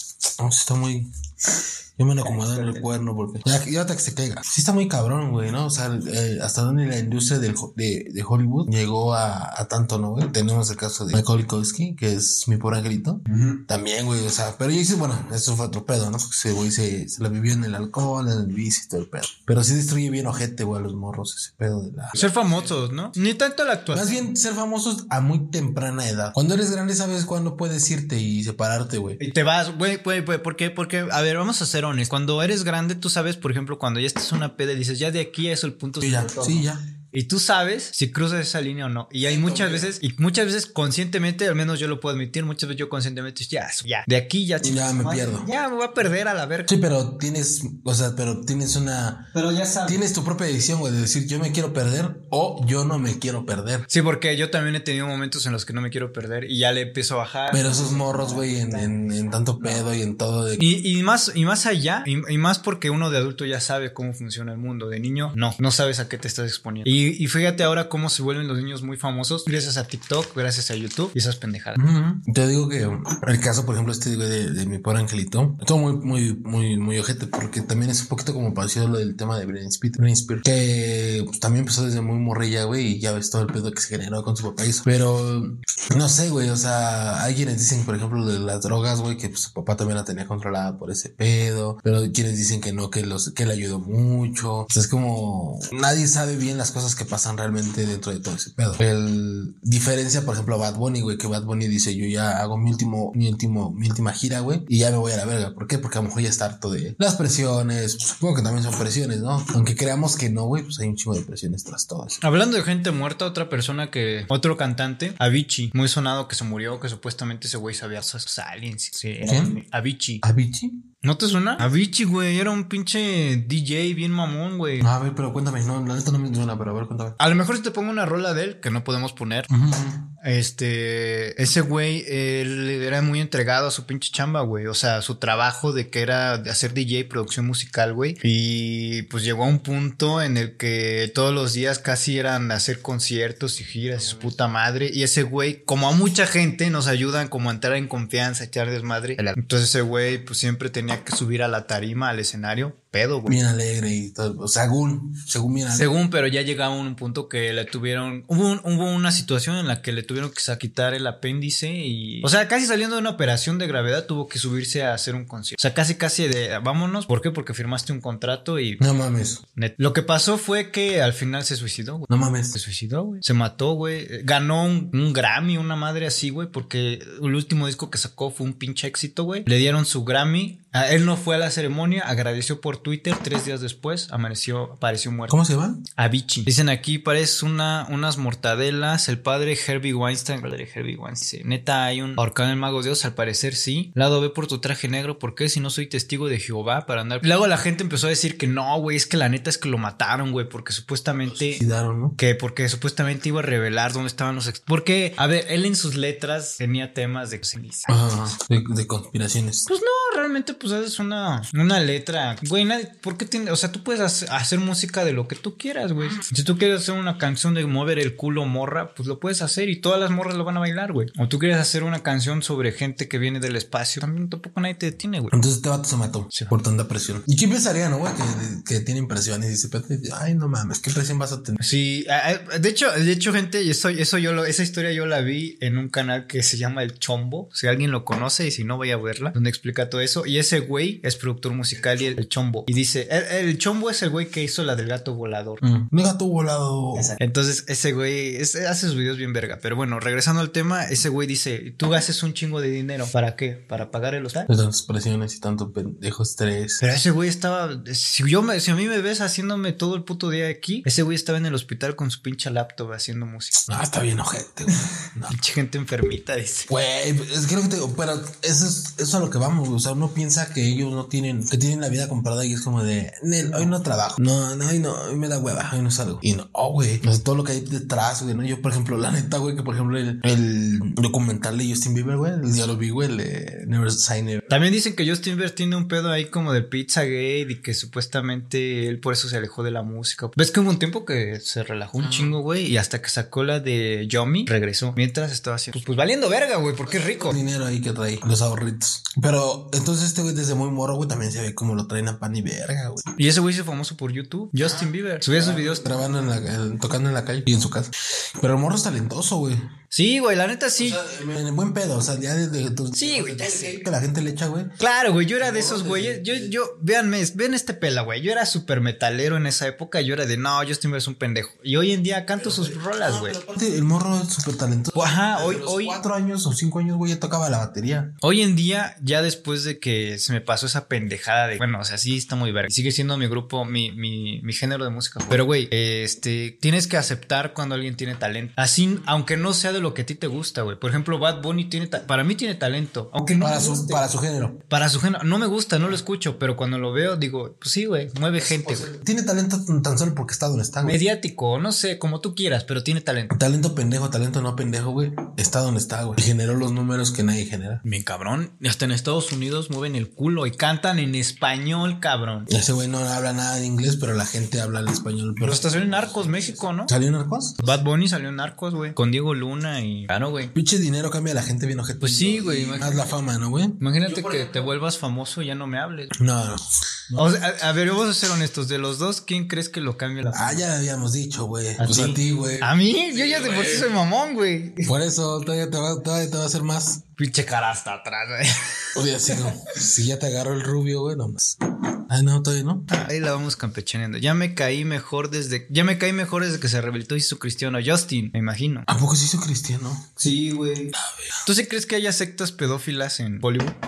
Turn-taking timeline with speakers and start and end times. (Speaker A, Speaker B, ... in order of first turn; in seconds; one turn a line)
Speaker A: 0.4-22.6
Speaker B: 2.2-2.9
Speaker B: 13.3-13.6
Speaker B: 22.1-24.2
Speaker A: 23.9-29.2
Speaker B: 29.2-46.7
Speaker A: 36.0-36.8
Speaker A: 39.2-40.0
Speaker A: 44.6-45.5
Speaker A: 46.7-49.3
Speaker B: 49.3-50.0
Speaker A: 49.8-53.9
Speaker B: 53.9-59.8
Speaker A: 57.5-60.6
Speaker B: 60.6-71.8
Speaker A: 71.8-112.2
Speaker B: 112.2-120.2
Speaker A: 119.2-119.6
Speaker A: 120.2-120.8
Speaker B: 121.0-124.9
Speaker A: 124.8-127.2
Speaker B: 127.2-129.5
Speaker A: 129.5-130.1
Speaker B: 130.2-153.4
Speaker A: 143.9-144.3
Speaker A: 153.3-155.9
Speaker B: 155.7-168.8
Speaker A: 168.8-169.4
Speaker B: 169.5-185.4
Speaker A: 172.1-172.6
Speaker A: 185.3-185.8
Speaker B: 185.9-201.6
Speaker A: 201.2-202.2
Speaker B: 202.2-207.9
Speaker A: 207.9-209.7
Speaker B: 209.7-225.3
Speaker A: 225.3-231.7
Speaker B: 231.6-245.6
Speaker A: 241.8-242.2
Speaker A: 245.6-247.1
Speaker B: 246.9-254.5
Speaker A: 254.5-256.8
Speaker B: 256.8-263.6
Speaker A: 263.7-265.3
Speaker B: 265.3-266.7
Speaker A: 266.7-284.5
Speaker B: 273.4-273.7
Speaker B: 284.5-297.4
Speaker A: 292.0-292.4
Speaker A: 296.8-303.0
Speaker B: 303.1-305.9
Speaker A: 304.6-309.6
Speaker B: 309.9-311.0
Speaker A: 310.8-314.8
Speaker B: 312.9-313.8
Speaker B: 314.8-323.4
Speaker A: 315.4-316.5
Speaker A: 322.4-328.1
Speaker B: 324.9-326.0
Speaker B: 328.2-344.1
Speaker A: 343.4-344.6
Speaker B: 344.7-348.9
Speaker A: 348.4-351.0
Speaker B: 350.8-353.3
Speaker A: 353.3-357.8
Speaker B: 357.8-362.5
Speaker A: 362.5-367.8
Speaker B: 365.4-366.9
Speaker B: 367.6-370.5
Speaker A: 370.5-374.7
Speaker B: 372.0-373.1
Speaker B: 373.8-376.1
Speaker A: 376.2-377.3
Speaker B: 377.1-380.6
Speaker A: 380.3-383.9
Speaker B: 381.8-384.9
Speaker A: 384.9-387.0
Speaker B: 387.2-389.6
Speaker A: 388.9-391.6
Speaker A: 392.1-392.9
Speaker B: 392.9-398.9
Speaker A: 398.9-400.1
Speaker B: 400.2-403.8
Speaker A: 400.9-401.4